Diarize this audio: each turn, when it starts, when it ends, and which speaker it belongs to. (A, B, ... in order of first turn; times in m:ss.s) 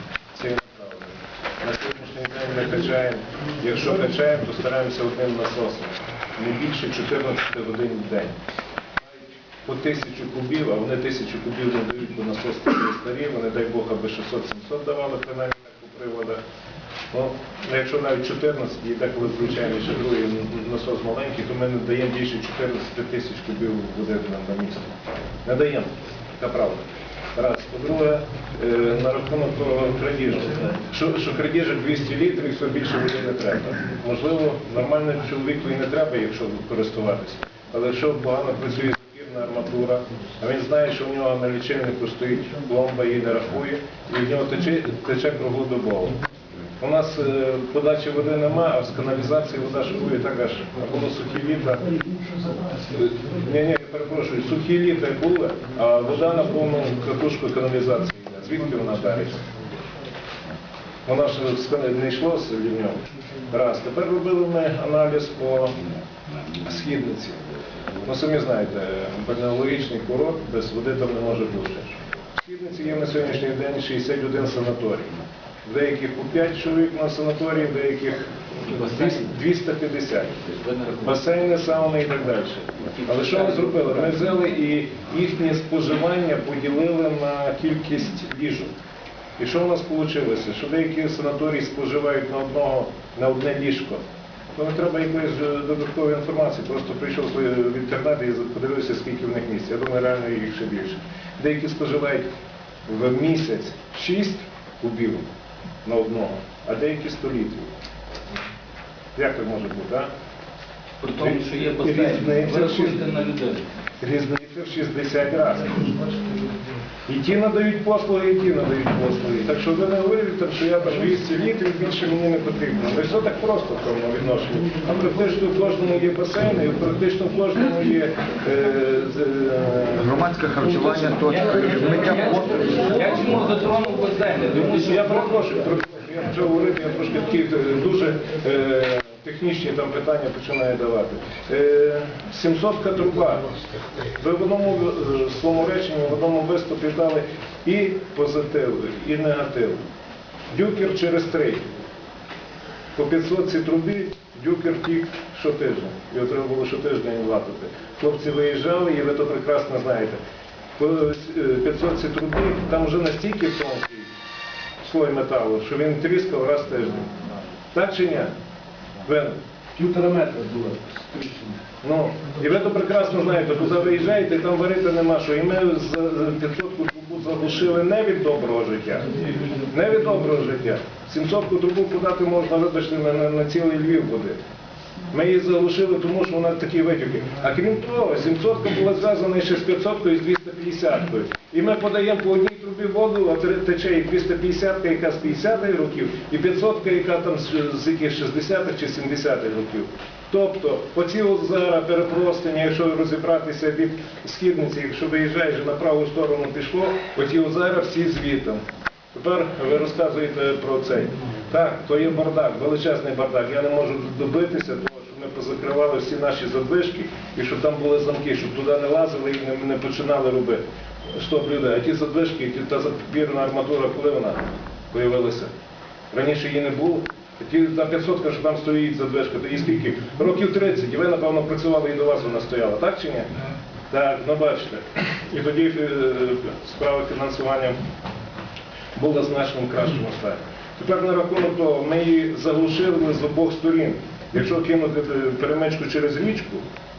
0:00.3-0:08.3 A
0:09.0-0:16.4 A
0:17.1-0:26.8 A
0:27.3-0:46.2 A
0:46.8-0:52.0 A
0:52.0-0:52.8 B
0:52.8-0:59.5 A
1:01.0-1:05.8 A
1:06.4-1:28.7 A
1:18.7-1:19.2 C
1:20.5-1:21.1 C
1:22.9-1:24.2 C
1:29.4-1:34.0 A
1:34.5-1:42.3 A
1:42.9-1:45.2 A
1:45.8-1:47.7 A
1:49.2-1:50.1 A
1:51.0-1:53.6 C
1:51.2-1:53.1 A
1:54.0-1:56.0 A
1:57.1-2:10.2 A
2:10.0-2:12.8 D
2:11.2-2:15.5 C
2:14.7-2:29.8 A
2:30.5-2:31.6 A
2:33.0-2:40.2 A
2:40.8-2:44.1 A
2:44.8-2:47.2 A
2:47.7-2:48.3 A
2:49.0-2:49.4 A
2:49.7-2:51.6 B
2:51.8-3:04.4 A
3:05.1-3:28.6 A
3:29.1-3:40.6 A
3:41.1-3:45.5 A
3:46.1-3:57.8 A
3:59.0-4:06.6 A